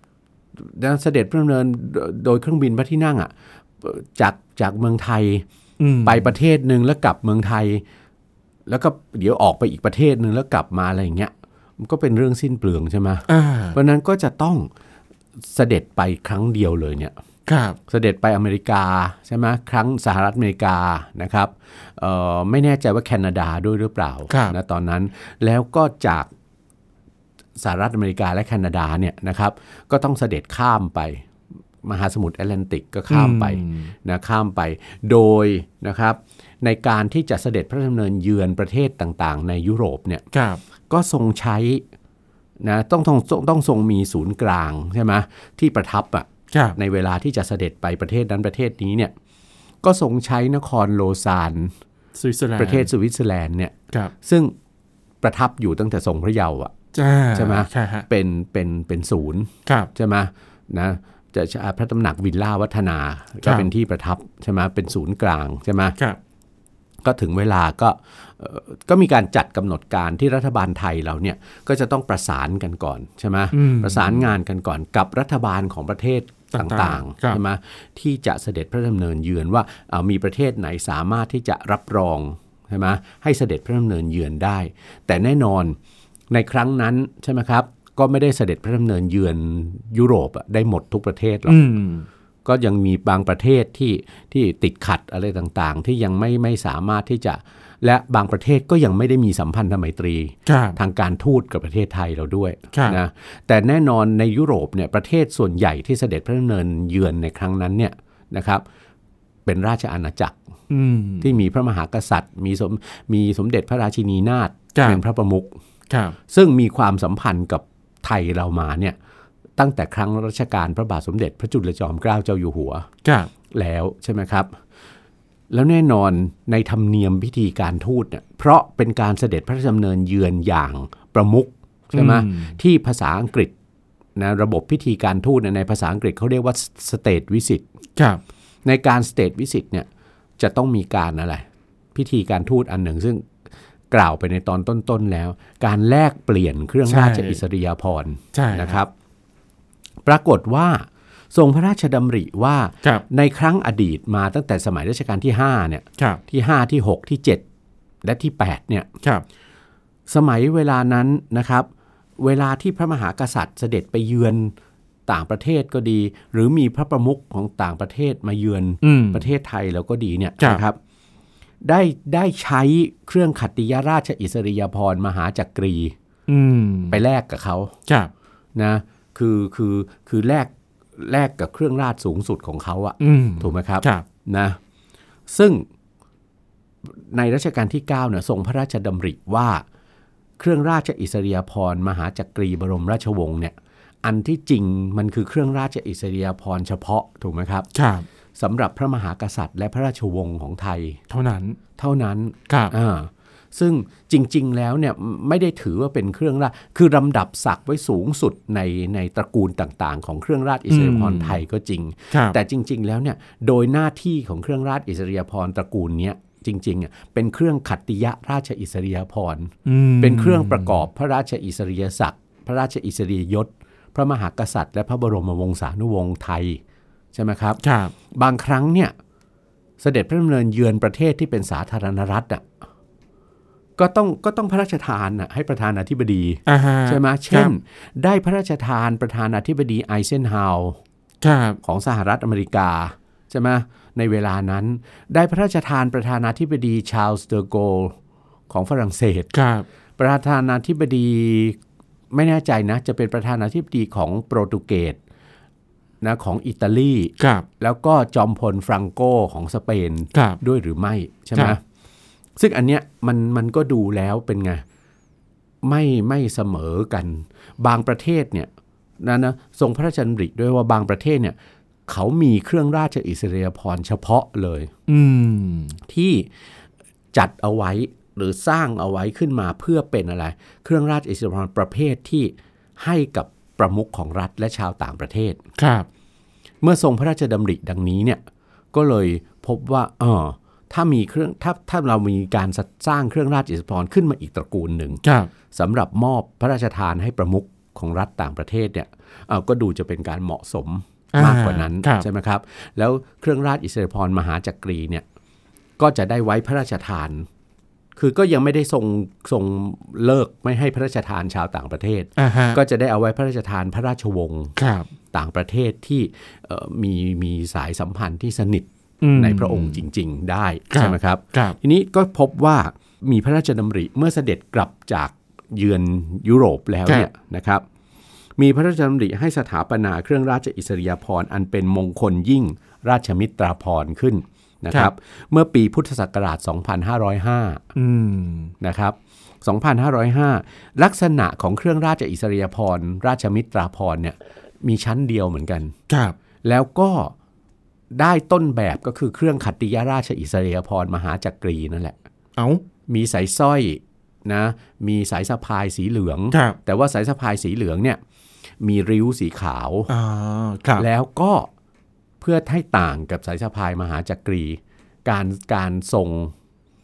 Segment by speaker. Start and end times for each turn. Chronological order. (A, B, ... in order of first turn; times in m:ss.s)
0:00.6-0:05.4 A
0:05.8-0:06.3 B
0:06.0-0:07.8 A
0:08.7-0:14.7 A
0:13.3-0:13.8 B
0:15.5-0:17.1 A
0:17.5-0:17.8 B
0:17.9-0:26.3 A
0:24.3-0:24.6 B
0:27.6-0:31.2 A
0:31.8-0:40.2 A
0:33.1-0:33.9 B
0:40.3-0:40.6 B
0:40.9-0:41.8 A
0:42.6-0:49.1 A
0:46.5-0:46.8 B
0:49.8-0:51.7 A
0:52.1-0:52.9 B
0:52.6-0:54.5 A
0:55.2-0:56.7 A
0:56.9-0:58.0 B
0:57.3-1:06.0 A
1:03.4-1:03.7 B
1:07.0-1:25.8 A
1:13.5-1:14.3 B
1:16.5-1:17.4 B
1:26.3-1:31.6 A
1:31.4-1:32.1 B
1:32.4-1:48.6 A
1:40.4-1:40.8 B
1:42.7-1:43.0 B
1:49.4-1:50.4 A
1:50.7-1:51.3 B
1:51.2-1:55.6 A
1:54.7-1:55.0 B
1:55.9-1:56.2 B
1:56.3-1:59.0 A
1:59.6-2:02.9 A
2:03.0-2:03.3 B
2:03.5-2:04.6 A
2:05.5-2:13.5 A
2:11.9-2:12.6 B
2:14.2-2:17.6 A
2:18.0-2:18.2 B
2:18.6-2:19.9 A
2:20.4-2:23.2 A
2:23.9-2:28.9 A
2:26.9-2:27.4 B
2:28.3-2:28.8 B
2:30.0-2:37.4 A
2:38.0-2:38.9 A
2:40.1-2:44.5 A
2:45.1-2:50.8 A
2:48.8-2:49.3 B
2:51.6-2:55.9 A
2:56.3-2:57.0 B
2:56.9-2:57.7 A
2:58.6-3:04.6 A
3:03.0-3:04.0 B
3:05.3-3:05.6 A
3:06.9-3:09.6 A
3:10.4-3:17.7 A
3:17.7-3:18.0 B
3:18.4-3:21.0 A
3:21.1-3:21.6 B
3:21.8-3:46.6 A
3:22.5-3:22.7 B
3:30.7-3:31.4 B
3:32.1-3:32.4 B
3:39.6-3:40.8 B
3:47.1-3:47.6 A
3:47.6-3:47.9 B
3:48.1-3:48.9 A
3:49.8-3:52.4 A
3:53.8-4:00.8 A
3:56.5-3:57.5 B
4:01.2-4:01.6 B
4:01.6-4:08.0 A
4:08.5-4:09.3 A
4:09.3-4:09.6 B
4:10.0-4:11.6 A
4:12.1-4:15.0 A
4:16.0-4:21.6 A
4:17.2-4:17.4 B
4:20.1-4:20.4 B
4:22.4-4:24.6 A
4:25.6-4:28.5 A
4:29.0-4:31.4 A
4:31.9-4:34.7 A
4:34.9-4:35.8 B
4:35.9-4:36.3 A
4:37.1-4:45.4 A
4:45.6-4:45.9 B
4:46.6-4:48.2 A
4:48.7-4:55.0 A
4:55.0-4:55.3 B
4:55.5-5:05.0 A
5:01.1-5:02.0 B
5:05.8-5:07.3 A
5:08.0-5:14.5 A
5:12.2-5:12.6 B
5:14.6-5:14.9 B
5:15.1-5:27.6 A
5:19.0-5:19.8 B
5:20.7-5:21.6 B
5:28.4-5:37.6 A
5:37.7-5:38.5 B
5:38.6-5:45.7 A
5:45.9-5:46.2 B
5:46.4-5:47.1 A
5:47.9-5:52.0 A
5:52.4-5:52.6 B
5:52.9-5:58.0 A
5:56.3-5:56.6 B
5:58.6-5:59.9 A
5:59.9-6:00.8 B
6:00.8-6:01.5 A
6:02.2-6:06.3 A